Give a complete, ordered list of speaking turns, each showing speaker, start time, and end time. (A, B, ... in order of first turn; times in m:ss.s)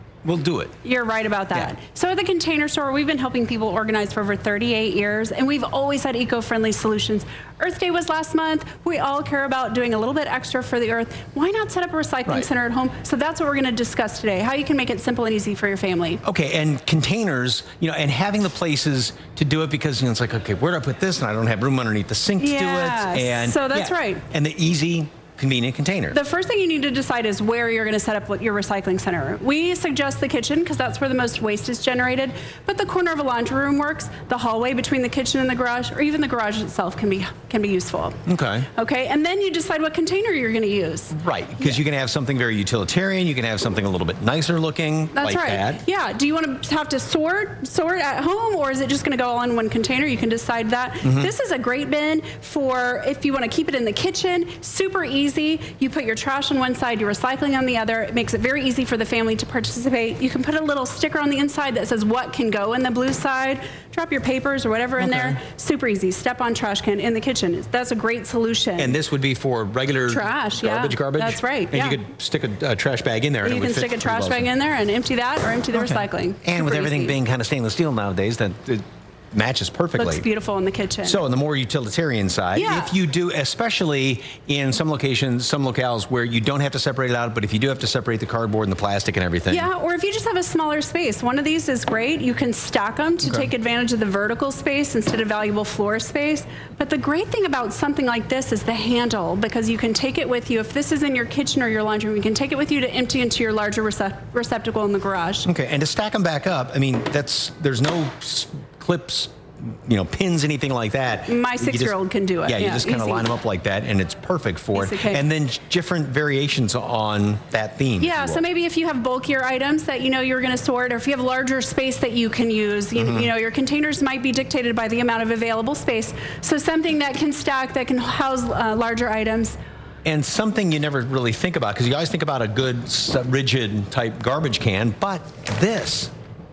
0:00.2-0:00.8 A
0:00.8-0:16.2 B
0:16.2-0:26.2 A
0:22.4-0:24.2 B
0:26.1-0:38.2 B
0:38.3-0:38.7 A
0:38.8-0:41.8 B
0:41.1-0:45.8 A
0:45.2-1:09.0 B
0:51.0-0:51.3 A
1:05.0-1:05.4 A
1:08.8-1:14.5 A
1:10.1-1:12.0 B
1:13.4-1:17.2 B
1:15.7-1:20.3 A
1:20.0-1:21.2 B
1:21.0-1:29.7 A
1:22.6-1:22.9 B
1:29.5-1:45.5 B
1:33.2-1:33.5 A
1:45.4-1:58.4 A
1:51.3-1:53.3 B
1:54.8-1:55.2 B
1:58.0-2:09.6 B
2:03.0-2:03.3 A
2:10.0-2:16.1 A